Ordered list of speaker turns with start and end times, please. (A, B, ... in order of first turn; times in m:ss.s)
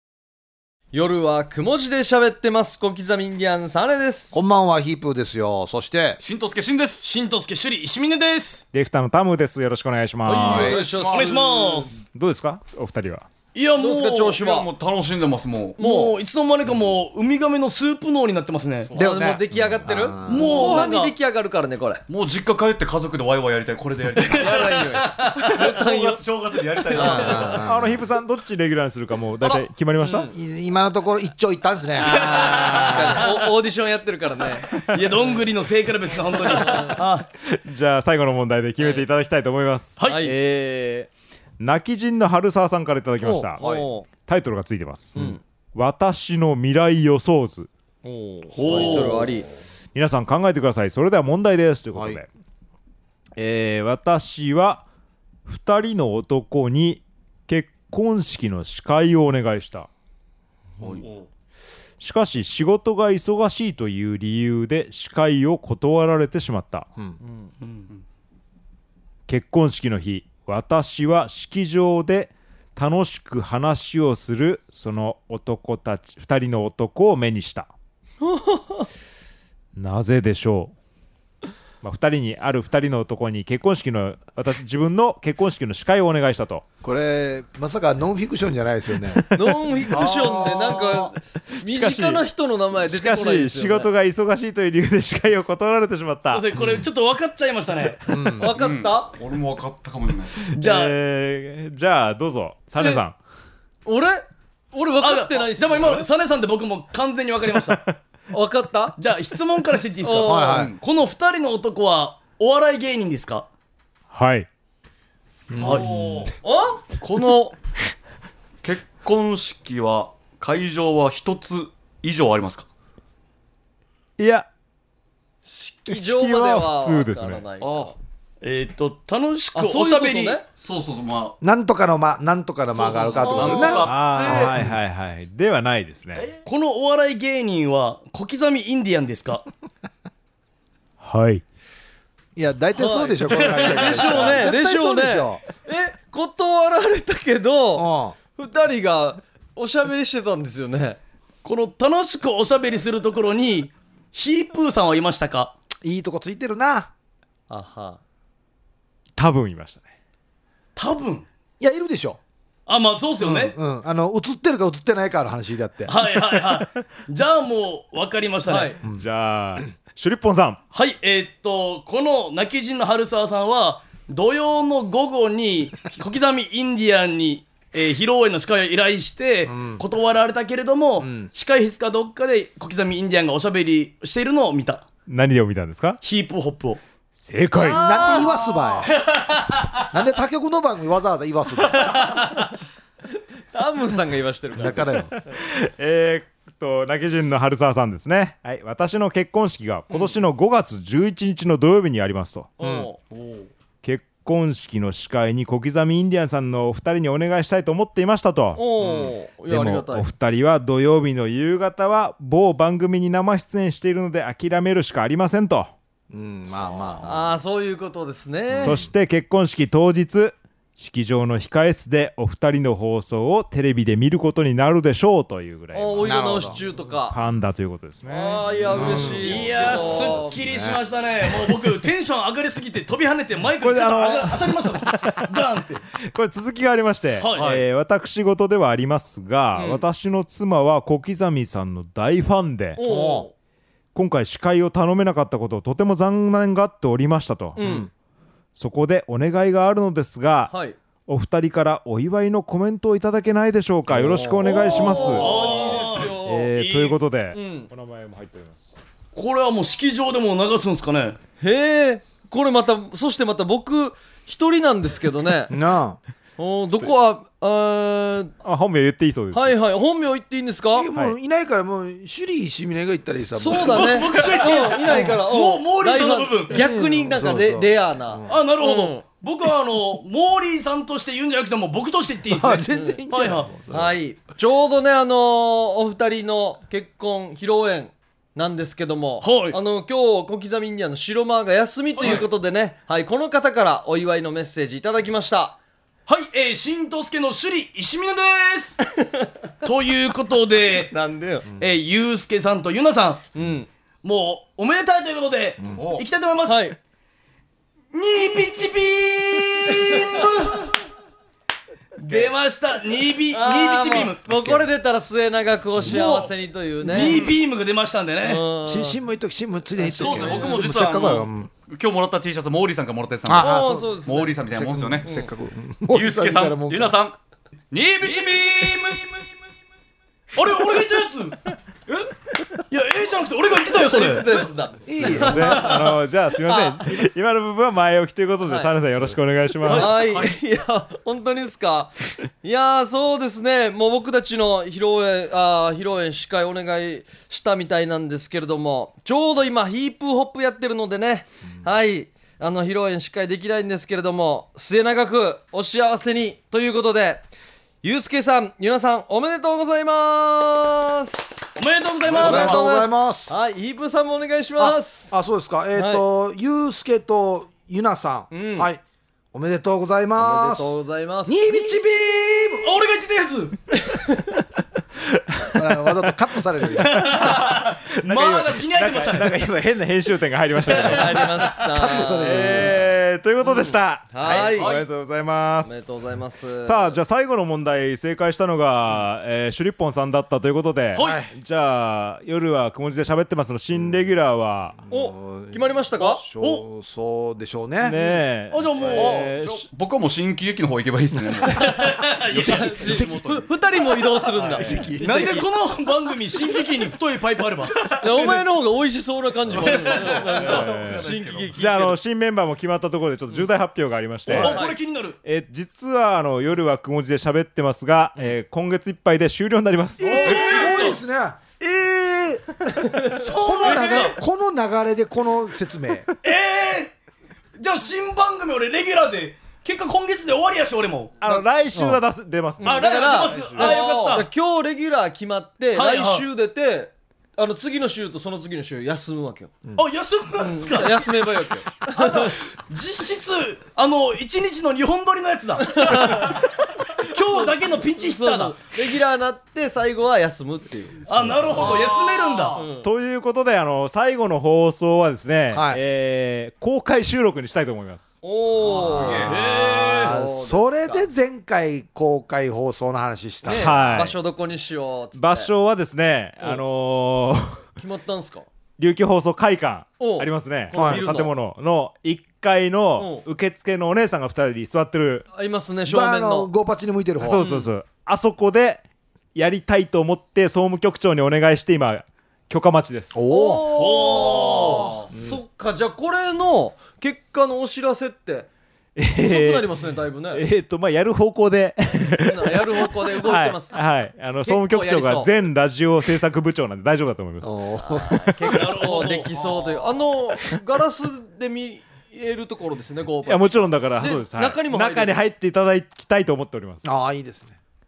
0:00.9-0:04.4 A
0:04.3-0:06.2 B
0:06.2-0:07.0 C
0:07.0-0:08.6 D
0:08.7-0:10.8 E
0:10.2-0:11.7 A
0:10.3-0:11.9 C
0:11.1-0:11.9 D
0:12.1-0:13.3 E
0:13.5-0:14.4 D
0:13.8-0:14.7 A
0:14.4-0:15.8 C
0:15.8-0:16.1 A
0:15.8-0:18.9 D
0:18.9-0:20.9 B
0:18.9-0:22.0 A
0:20.2-0:21.1 D
0:22.1-0:27.6 C
0:24.3-0:26.2 A
0:26.9-0:27.6 A
0:27.0-0:28.0 B
0:27.5-0:30.3 E
0:30.0-0:30.3 A
0:30.3-0:33.2 B
0:32.0-0:34.7 A
0:32.1-0:33.2 E
0:34.9-0:37.3 D
0:36.4-0:37.0 A
0:37.4-0:43.6 E
0:40.0-0:40.3 A
0:43.2-0:44.0 A
0:44.2-0:47.7 E
0:45.1-0:45.4 A
0:48.0-0:49.5 A
0:48.5-0:49.3 D
0:49.9-0:52.3 E
0:53.4-0:54.8 E
0:55.4-0:59.9 E
1:00.8-1:01.3 C
1:02.0-1:06.9 E
1:07.2-1:07.5 A
1:07.6-1:07.9 D
1:09.3-1:17.7 E
1:18.2-1:18.9 A
1:19.8-1:20.7 E
1:21.8-1:26.6 E
1:26.8-1:29.3 B
1:29.3-1:33.9 A
1:29.9-1:30.8 B
1:30.0-1:31.1 C
1:31.5-1:32.2 E
1:32.8-1:36.4 E
1:36.2-1:38.0 D
1:38.1-1:38.5 B
1:38.4-1:39.1 A
1:38.5-1:40.5 C
1:40.5-1:43.2 E
1:40.5-1:40.9 D
1:43.8-1:46.0 A
1:45.0-1:47.9 D
1:48.3-1:49.0 A
1:49.0-1:53.5 D
1:50.0-1:50.5 A
1:50.2-1:50.7 B
1:50.4-1:50.8 C
1:54.1-1:54.5 E
1:55.5-1:55.9 B
1:55.5-1:56.3 D
1:55.6-1:55.9 C
1:56.4-1:57.5 A
1:57.0-1:57.5 C
1:58.6-2:02.7 C
2:04.2-2:04.5 E
2:05.4-2:08.0 A
2:05.9-2:07.4 E
2:07.6-2:07.9 C
2:08.4-2:10.4 D
2:09.5-2:10.4 A
2:10.6-2:11.4 C
2:11.4-2:14.7 B
2:12.7-2:14.6 C
2:13.1-2:14.5 A
2:13.8-2:16.3 E
2:16.4-2:19.4 D
2:21.0-2:21.4 E
2:22.4-2:25.4 B
2:22.7-2:31.0 A
2:27.7-2:28.2 B
2:31.4-2:35.5 D
2:35.8-2:36.9 B
2:37.5-2:38.0 A
2:39.2-2:39.8 E
2:40.8-2:41.3 D
2:41.6-2:42.2 B
2:42.7-2:43.6 D
2:43.2-2:45.9 B
2:45.9-2:48.8 D
2:48.4-2:48.8 A
2:48.9-2:50.6 E
2:50.7-3:04.8 D
2:59.5-2:59.8 B
3:01.0-3:01.3 B
3:05.1-3:06.0 E
3:06.0-3:06.8 D
3:07.2-3:08.0 E
3:07.6-3:08.8 A
3:07.7-3:09.0 B
3:09.9-3:12.2 B
3:11.8-3:12.4 D
3:13.5-3:14.9 A
3:14.5-3:15.1 B
3:15.3-3:22.5 E
3:19.9-3:20.2 A
3:22.6-3:22.9 A
3:22.6-3:22.9 B
3:23.1-3:23.5 C
3:23.8-3:35.7 E
3:28.6-3:30.1 A
3:28.8-3:29.1 B
3:36.1-3:37.2 B
3:37.0-3:38.8 A
3:38.5-3:38.9 B
3:38.6-3:49.0 E
3:45.7-3:47.2 A
3:46.0-3:46.6 B
3:48.1-3:50.4 A
3:48.6-3:48.9 C
3:48.7-3:50.8 B
3:49.0-3:55.8 D
3:53.6-3:55.3 E
3:56.0-4:02.8 E
3:57.2-3:57.5 D
3:57.3-3:57.6 C
3:59.5-3:59.8 A
4:02.8-4:03.3 A
4:02.8-4:03.3 B
4:03.9-4:07.6 E
4:07.6-4:07.9 A
4:07.6-4:07.9 B
4:08.6-4:10.5 E
4:10.5-4:10.8 A
4:11.1-4:18.8 E
4:13.9-4:16.5 A
4:14.7-4:17.0 D
4:17.3-4:17.7 A
4:19.1-4:21.2 D
4:21.4-4:25.5 A
4:25.5-4:26.0 B
4:26.4-4:28.3 A
4:28.4-4:29.6 E
4:29.3-4:30.9 A
4:30.7-4:34.3 B
4:33.4-4:39.0 A
4:33.6-4:36.6 D
4:36.5-4:38.4 B
4:38.3-4:43.5 D
4:42.3-4:44.0 B
4:42.7-4:43.0 A
4:43.7-4:55.6 A
4:49.2-4:49.6 D
4:52.0-4:52.3 D
4:56.1-4:58.8 D
4:58.9-4:59.3 A
4:59.6-5:00.9 D
5:00.9-5:01.4 A
5:01.6-5:03.2 D
5:03.3-5:03.7 A
5:04.0-5:06.7 D
5:06.4-5:06.8 A
5:07.9-5:10.7 D
5:09.7-5:10.3 A
5:12.0-5:14.2 D
5:12.0-5:12.3 A
5:13.3-5:17.3 A
5:14.2-5:14.6 B
5:15.8-5:18.4 D
5:18.2-5:19.0 A
5:18.6-5:21.5 B
5:19.8-5:20.6 A
5:20.0-5:20.7 D
5:20.0-5:25.2 C
5:23.2-5:27.0 B
5:23.3-5:24.4 A
5:25.9-5:27.2 C
5:27.7-5:29.3 C
5:28.0-5:29.0 D
5:30.3-5:31.4 D
5:32.7-5:34.4 D
5:33.8-5:35.7 A
5:34.9-5:35.7 B
5:34.9-5:40.0 E
5:36.4-5:36.8 A
5:38.4-5:38.7 A
5:39.6-5:40.3 D
5:39.6-5:57.3 A
5:57.8-6:01.6 A
6:01.6-6:02.6 D
6:02.1-6:03.3 B
6:02.1-6:05.1 A
6:04.6-6:08.8 B
6:05.7-6:06.0 A
6:08.3-6:08.7 A
6:09.3-6:10.7 B
6:10.2-6:11.8 A
6:11.3-6:12.7 B
6:12.6-6:13.6 D
6:13.8-6:14.3 A
6:15.0-6:16.1 E
6:15.5-6:17.1 B
6:16.7-6:19.4 D
6:16.8-6:26.0 E
6:20.6-6:22.9 A
6:21.7-6:22.9 B
6:23.4-6:24.7 A
6:24.2-6:24.8 D
6:25.6-6:27.0 A
6:26.6-6:34.8 E
6:30.9-6:31.2 D
6:31.0-6:31.3 B
6:33.7-6:34.0 B
6:34.8-6:38.0 B
6:34.9-6:36.2 A
6:36.4-6:36.6 D
6:37.8-6:39.7 E
6:38.5-6:39.3 D
6:38.9-6:44.2 C
6:41.5-6:45.5 A
6:41.6-6:42.7 D
6:42.3-6:43.3 B
6:44.4-6:45.4 B
6:45.0-6:48.0 D
6:48.0-6:52.0 A
6:49.5-6:51.7 C
6:49.6-6:50.1 D
6:50.4-6:54.6 E
6:54.3-6:55.2 D
6:54.3-6:54.7 A
6:55.2-7:00.6 E
7:00.0-7:06.1 B
7:00.0-7:01.0 D
7:03.1-7:04.2 D
7:03.6-7:04.1 A
7:06.2-7:06.9 D
7:07.6-7:11.2 D
7:11.2-7:13.8 E
7:11.7-7:12.0 B
7:12.6-7:19.5 A
7:12.6-7:14.3 D
7:15.7-7:16.2 D
7:19.8-7:21.2 D
7:20.4-7:22.4 A
7:21.8-7:26.4 D
7:25.6-7:26.4 A
7:27.0-7:28.6 D
7:27.3-7:31.8 A
7:31.1-7:32.6 D
7:31.6-7:32.6 C
7:32.5-7:32.9 A
7:32.8-7:38.2 E
7:35.5-7:35.8 B
7:38.2-7:41.1 A
7:38.7-7:39.3 B
7:38.7-7:39.4 C
7:39.0-7:40.1 D
7:39.9-7:44.1 B
7:43.4-7:45.5 A
7:43.5-7:44.2 E
7:45.1-7:47.6 E
7:47.8-7:48.4 A
7:48.8-7:55.2 E
7:50.0-7:51.3 A
7:50.7-7:51.0 B
7:53.0-7:53.2 A
7:55.3-7:56.5 A
7:55.9-7:57.4 B
7:57.2-7:58.8 E
7:57.3-7:57.7 A
7:59.3-8:03.2 E
8:03.1-8:03.8 B
8:03.2-8:08.5 A
8:03.7-8:04.9 D
8:05.1-8:05.4 B
8:09.0-8:09.7 E
8:09.2-8:10.4 A
8:10.3-8:17.6 E
8:12.2-8:13.8 A
8:14.4-8:15.3 A
8:17.4-8:18.3 B
8:17.8-8:25.1 A
8:18.1-8:18.7 E
8:18.4-8:19.3 D
8:23.2-8:26.9 E
8:26.8-8:27.6 B